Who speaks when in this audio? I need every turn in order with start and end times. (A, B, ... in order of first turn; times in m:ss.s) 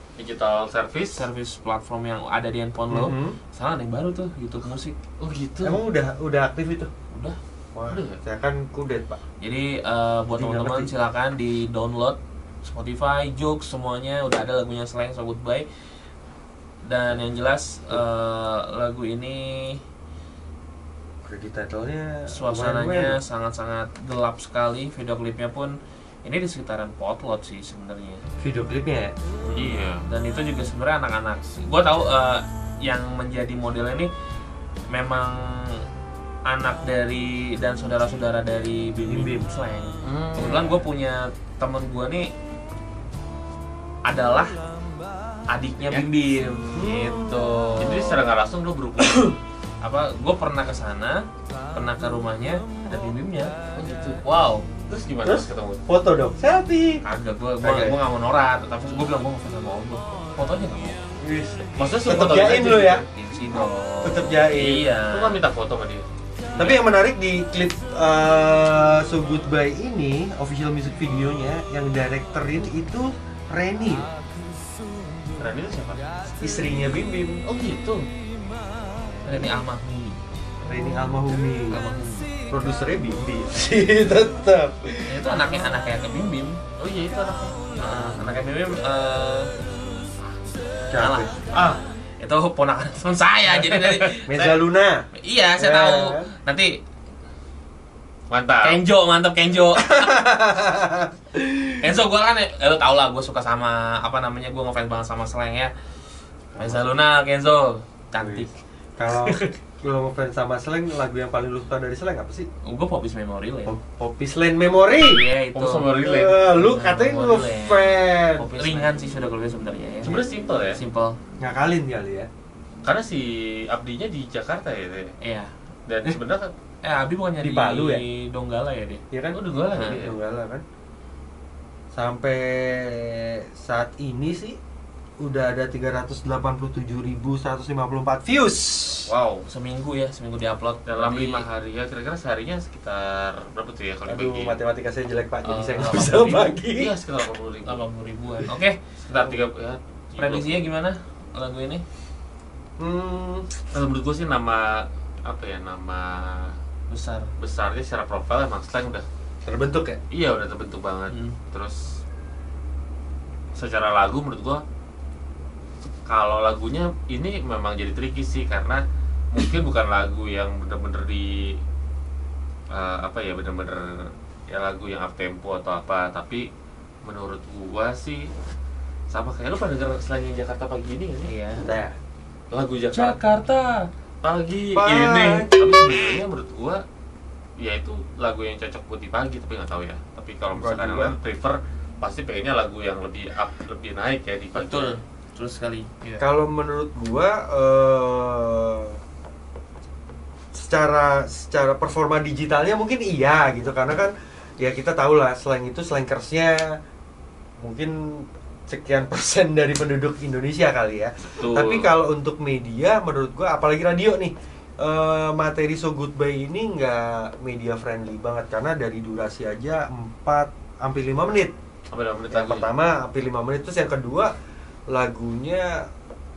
0:00.2-0:01.3 A
0:01.1-0:05.0 B
0:02.9-0:03.4 C
0:05.2-0:05.8 A
0:05.6-0:06.9 C
0:07.1-0:07.4 B
0:07.7-0:09.2 C
0:07.9-0:08.2 A
0:09.4-0:15.7 B
0:10.3-0:10.9 C
0:16.8-0:19.8 B
0:21.2-0:23.2 C
0:22.3-0:28.2 B
0:28.4-0:29.2 C
0:29.4-0:34.1 B
0:29.6-0:30.0 A
0:34.9-0:35.8 B
0:36.5-0:42.3 B
0:39.0-0:39.5 C
0:40.0-0:40.7 A
0:40.4-0:40.8 C
0:44.1-0:44.6 B
0:45.5-0:48.2 B
0:46.7-0:47.5 C
0:47.8-0:49.4 A
0:49.0-0:49.4 C
0:49.8-0:53.6 B
0:53.8-0:54.2 A
0:54.2-0:54.7 B
0:54.9-0:55.8 A
0:55.2-0:57.0 C
0:57.0-1:01.0 B
0:57.6-0:58.0 C
1:01.2-1:03.0 C
1:01.8-1:03.0 A
1:03.0-1:05.4 B
1:04.0-1:04.8 C
1:04.6-1:06.1 A
1:06.5-1:06.8 B
1:06.6-1:14.1 C
1:15.4-1:16.0 A
1:16.4-1:17.4 C
1:17.4-1:18.1 A
1:19.2-1:20.2 B
1:20.6-1:21.8 C
1:21.7-1:22.3 B
1:22.5-1:25.7 C
1:25.1-1:26.6 B
1:26.8-1:27.8 A
1:27.8-1:29.5 B
1:27.9-1:28.3 C
1:30.9-1:31.8 C
1:30.9-1:34.6 B
1:33.5-1:34.2 A
1:34.2-1:35.0 C
1:35.2-1:36.8 B
1:35.6-1:36.3 C
1:38.3-1:38.8 A
1:38.6-1:40.2 B
1:39.8-1:41.1 C
1:41.4-1:45.7 B
1:46.5-1:46.9 C
1:46.6-1:48.5 B
1:48.2-1:52.5 C
1:49.1-1:49.5 B
1:52.6-1:53.8 B
1:53.7-1:55.2 C
1:55.0-1:55.9 B
1:55.5-1:56.5 A
1:55.9-1:58.9 C
1:56.5-2:00.2 B
2:00.0-2:00.8 A
2:00.7-2:01.2 B
2:01.4-2:02.3 C
2:02.8-2:05.1 A
2:05.2-2:05.5 B
2:05.9-2:06.5 A
2:06.8-2:09.0 B
2:07.4-2:08.0 C
2:09.1-2:10.6 C
2:09.3-2:10.2 A
2:11.9-2:14.6 C
2:15.2-2:19.1 C
2:19.1-2:21.5 B
2:20.9-2:24.6 A
2:24.0-2:26.9 C
2:25.4-2:26.6 B
2:26.7-2:27.8 A
2:27.6-2:28.9 B
2:29.0-2:30.7 A
2:29.1-2:29.4 C
2:30.2-2:31.8 B
2:32.8-2:33.5 C
2:33.7-2:36.6 A
2:36.9-2:37.3 B
2:37.4-2:39.1 A
2:39.4-2:40.0 C
2:40.1-2:42.0 A
2:41.1-2:41.4 B
2:43.6-2:44.6 A
2:46.0-2:51.6 A
2:52.7-2:56.4 A
2:57.0-2:58.3 A
2:59.1-3:01.3 A
3:01.2-3:01.6 B
3:01.6-3:02.0 C
3:02.5-3:03.2 A
3:02.9-3:03.9 B
3:04.2-3:06.8 A
3:04.7-3:05.5 C
3:07.6-3:15.0 A
3:10.6-3:11.2 C
3:14.5-3:16.3 B
3:16.2-3:19.0 C
3:20.5-3:26.7 C
3:27.6-3:41.5 C
3:31.4-3:31.9 A
3:41.9-3:42.7 A
3:42.3-3:44.3 C
3:44.9-3:45.9 C